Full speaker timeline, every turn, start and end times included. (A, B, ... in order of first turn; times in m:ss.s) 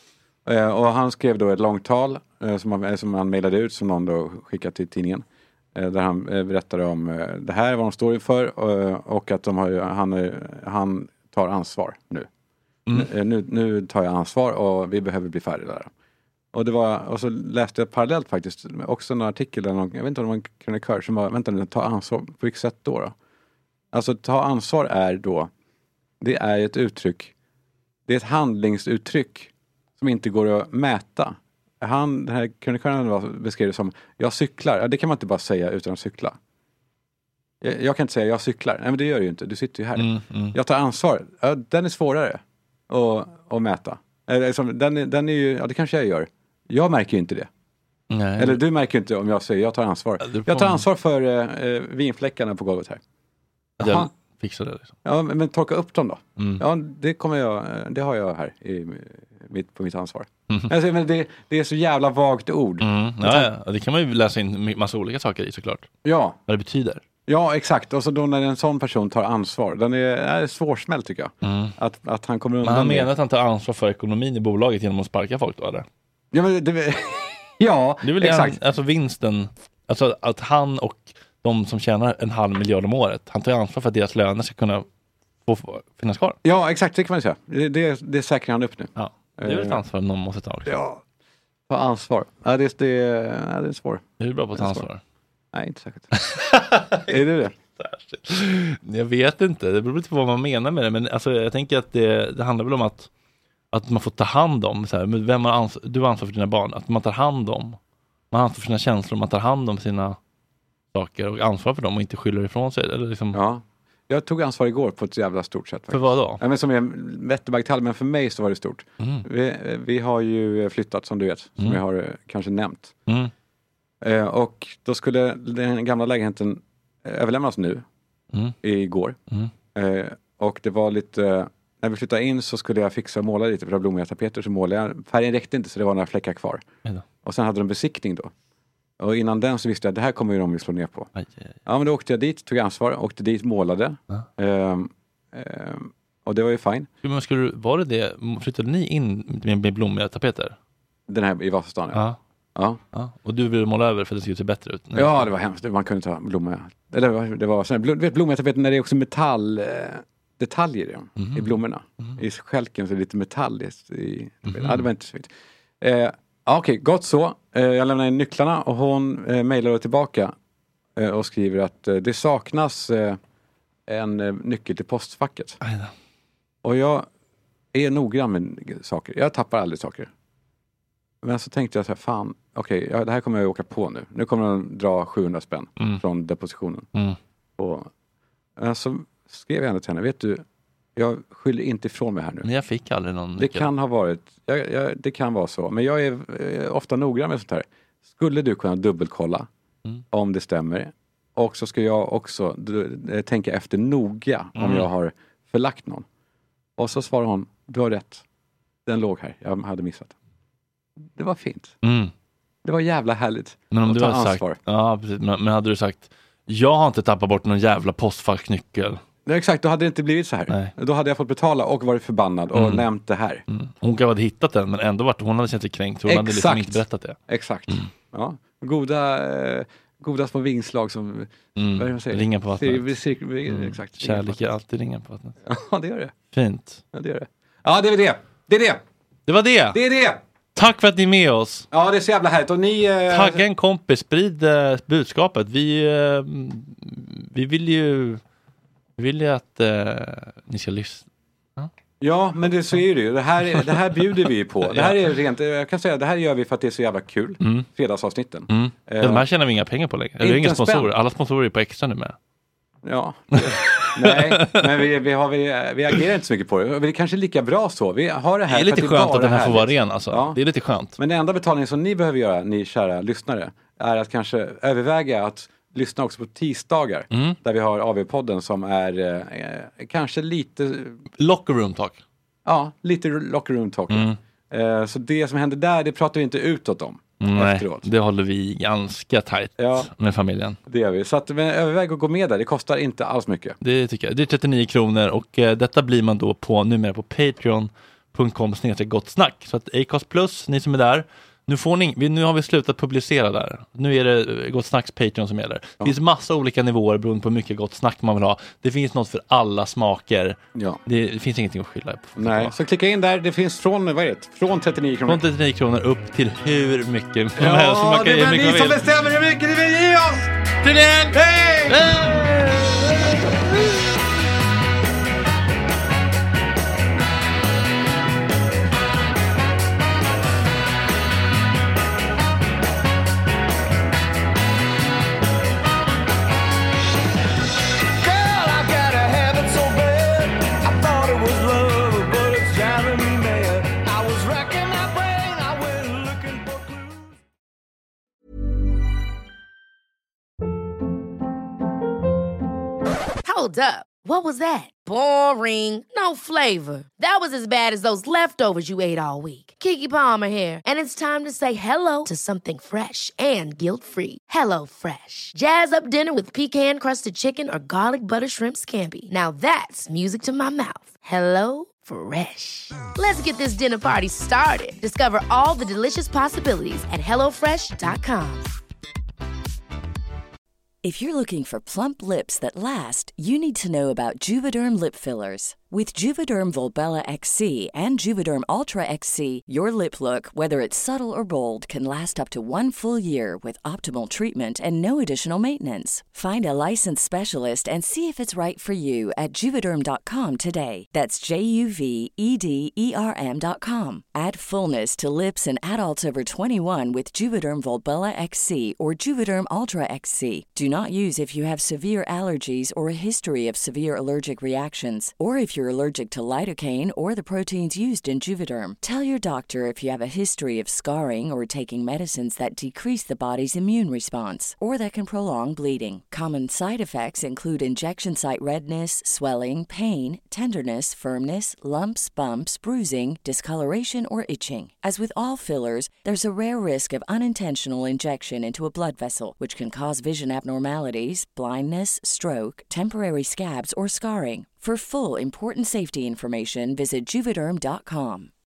0:00.4-0:05.2 A
0:05.7-0:12.3 A
0:12.9-0:15.9 A
0:16.5-0:23.1 A
0:23.9-0:25.5 A
0:26.2-0:27.3 A
0:28.1-0:36.4 A
0:37.6-0:47.5 A
0:40.0-0:40.5 B
0:48.1-0:48.6 B
0:48.4-0:53.0 A
0:50.2-0:50.8 B
0:53.8-0:54.9 B
0:53.8-0:54.1 A
0:55.0-1:03.5 A
1:02.8-1:05.9 B
1:06.0-1:06.4 A
1:06.5-1:07.0 B
1:07.3-1:13.1 A
1:11.4-1:11.7 B
1:12.6-1:15.8 B
1:16.3-1:18.6 A
1:18.0-1:24.8 B
1:25.4-1:26.4 B
1:26.4-1:29.8 A
1:29.0-1:30.7 B
1:30.6-1:31.0 A
1:31.7-1:34.0 A
1:34.2-1:35.0 B
1:34.6-1:34.8 A
1:35.5-1:36.1 A
1:36.2-1:37.2 B
1:37.1-1:37.5 A
1:37.8-1:43.1 B
1:43.7-1:47.8 B
1:48.3-1:50.2 B
1:50.9-1:53.4 B
1:53.3-2:02.9 A
1:55.9-1:56.4 B
2:04.0-2:07.8 A
2:08.6-2:09.2 A
2:09.7-2:16.6 A
2:17.2-2:18.3 A
2:19.0-2:21.1 A
2:21.2-2:21.5 B
2:21.6-2:26.9 A
2:27.0-2:30.6 B
2:31.1-2:32.0 A
2:32.9-2:35.3 B
2:34.9-2:45.3 A
2:41.2-2:42.2 B
2:44.4-2:44.9 B
2:45.8-2:50.3 A
2:51.0-2:53.2 A
2:53.9-2:55.6 A
2:55.6-2:55.9 B
2:56.6-2:57.1 A
2:57.7-3:00.1 A
3:01.2-3:06.9 A
3:07.6-3:07.9 A
3:08.6-3:10.4 A
3:11.0-3:12.5 A
3:12.4-3:13.7 B
3:13.4-3:19.5 A
3:20.1-3:26.0 A
3:24.6-3:24.9 B
3:26.8-3:28.2 A
3:28.8-3:30.1 A
3:31.1-3:31.7 A
3:31.8-3:32.1 B
3:32.6-3:34.6 A
3:33.7-3:39.0 B
3:39.2-3:43.4 A
3:42.5-3:42.9 B
3:43.5-3:47.2 B
3:46.1-3:54.4 A
3:51.6-3:52.8 B
3:53.5-3:55.4 B
3:55.4-3:56.1 A
3:56.3-3:56.8 B
3:56.9-3:58.8 A
3:59.3-3:59.8 B
3:59.7-4:00.2 A
4:00.6-4:01.7 B
4:01.7-4:03.4 A
4:03.1-4:08.2 B
4:09.0-4:11.0 B
4:12.0-4:19.2 A
4:14.7-4:15.1 B
4:17.4-4:17.7 B
4:18.5-4:22.1 B
4:20.2-4:20.9 A
4:22.8-4:30.4 A
4:23.4-4:24.6 B
4:28.5-4:31.0 B
4:31.0-4:41.0 A
4:37.1-4:37.4 B
4:41.2-4:42.0 B
4:42.4-4:47.8 A
4:43.9-4:44.2 B
4:47.2-4:50.6 B
4:49.6-4:49.9 A
4:50.7-4:53.6 A
4:53.6-5:12.5 B
5:12.2-5:15.2 A
5:15.1-5:19.0 B
5:17.4-5:20.3 A
5:20.6-5:21.2 B
5:21.1-5:23.4 A
5:21.7-5:22.6 B
5:38.0-5:47.2 C
5:53.2-6:18.5 D
6:20.8-7:28.3 E